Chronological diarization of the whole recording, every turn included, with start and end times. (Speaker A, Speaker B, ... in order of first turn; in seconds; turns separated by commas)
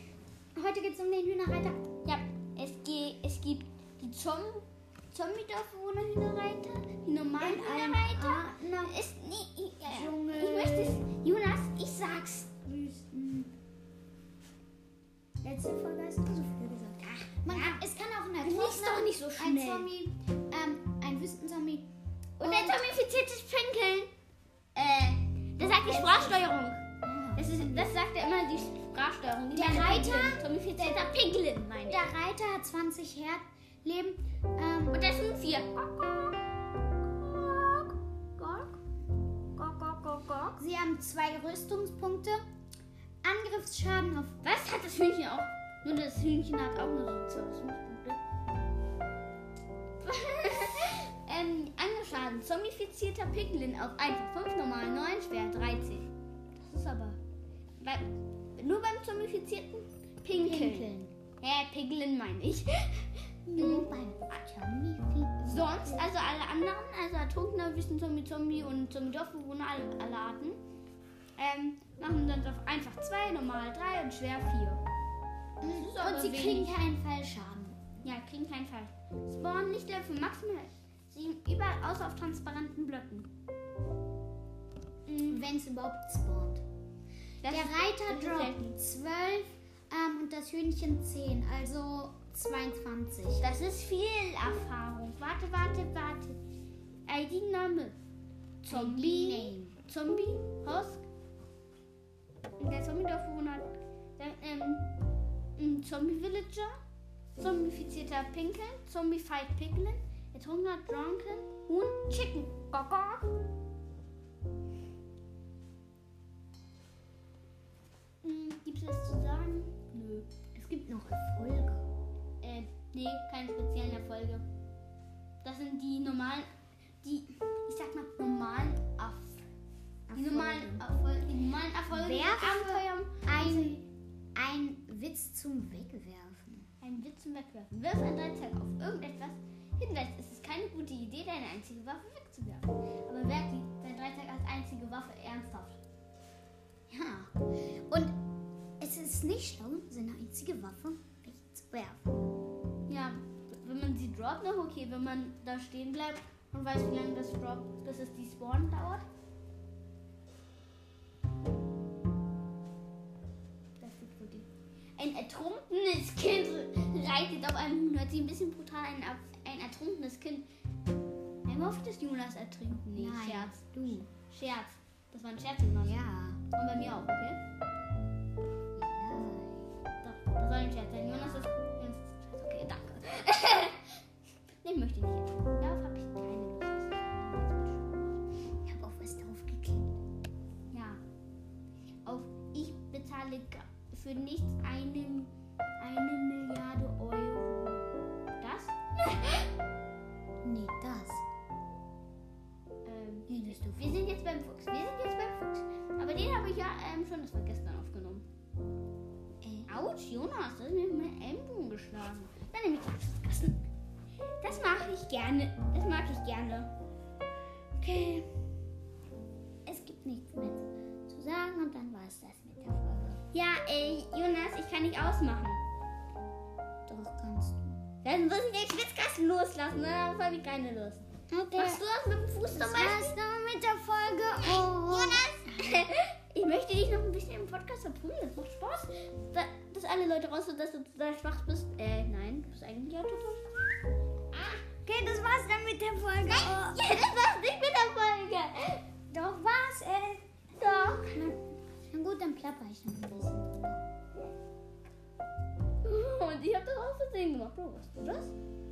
Speaker A: 0.5-1.8, Speaker B: 2.0-12.5, Speaker A: 7.4-8.9, Speaker A: 9.8-11.0, Speaker A: 12.6-13.5, Speaker B: 15.4-17.8, Speaker A: 17.4-21.9, Speaker B: 18.4-19.9, Speaker B: 22.4-24.1, Speaker A: 22.4-22.9, Speaker B: 24.8-26.8, Speaker A: 25.8-26.5, Speaker A: 27.0-27.9, Speaker B: 27.4-32.1, Speaker A: 29.5-31.0, Speaker A: 31.9-35.0, Speaker B: 34.9-38.8, Speaker B: 39.6-40.6, Speaker A: 40.6-42.4, Speaker A: 43.2-44.4, Speaker B: 44.4-48.2, Speaker B: 50.0-56.1, Speaker B: 56.6-57.2, Speaker B: 57.8-64.0, Speaker A: 60.4-61.1, Speaker A: 63.5-66.1, Speaker B: 65.4-70.6, Speaker B: 71.4-74.8, Speaker A: 75.6-77.8, Speaker B: 75.6-76.8, Speaker B: 78.0-83.3, Speaker B: 85.1-85.4, Speaker A: 85.3-86.6, Speaker B: 87.4-88.7, Speaker A: 87.5-93.5, Speaker B: 93.4-96.4, Speaker B: 97.1-98.0, Speaker B: 98.6-101.0, Speaker A: 98.7-99.8, Speaker B: 102.6-104.9, Speaker B: 105.6-106.8, Speaker B: 107.3-113.3, Speaker B: 118.2-120.3, Speaker A: 120.5-121.8, Speaker B: 122.4-124.4, Speaker B: 125.4-126.5, Speaker B: 127.0-129.4, Speaker A: 130.1-130.8, Speaker B: 130.1-133.8, Speaker A: 131.9-136.7, Speaker B: 136.8-145.8, Speaker A: 146.9-148.2, Speaker A: 148.8-152.2, Speaker B: 152.9-159.1, Speaker B: 163.8-170.5, Speaker B: 171.4-173.6, Speaker A: 172.9-174.1, Speaker B: 174.3-176.0, Speaker A: 175.8-176.4, Speaker B: 176.5-177.4, Speaker A: 178.8-179.6, Speaker B: 180.0-183.9, Speaker A: 181.0-181.5, Speaker B: 184.6-188.2, Speaker A: 188.7-189.9, Speaker B: 190.7-191.0, Speaker B: 192.1-197.9, Speaker B: 198.4-199.5, Speaker A: 200.4-201.2, Speaker B: 202.8-208.3, Speaker A: 203.3-204.0, Speaker A: 209.4-209.7, Speaker B: 209.7-213.6, Speaker B: 214.4-216.7, Speaker A: 217.8-218.3, Speaker A: 219.7-223.2, Speaker B: 223.3-225.6, Speaker A: 226.9-227.7, Speaker B: 228.0-233.2, Speaker A: 231.3-231.8, Speaker A: 232.5-235.3, Speaker B: 234.4-243.5, Speaker B: 244.3-244.7, Speaker A: 244.8-246.9, Speaker B: 246.3-248.8, Speaker A: 249.1-250.3, Speaker B: 250.6-251.2, Speaker A: 251.0-253.8, Speaker B: 255.8-258.3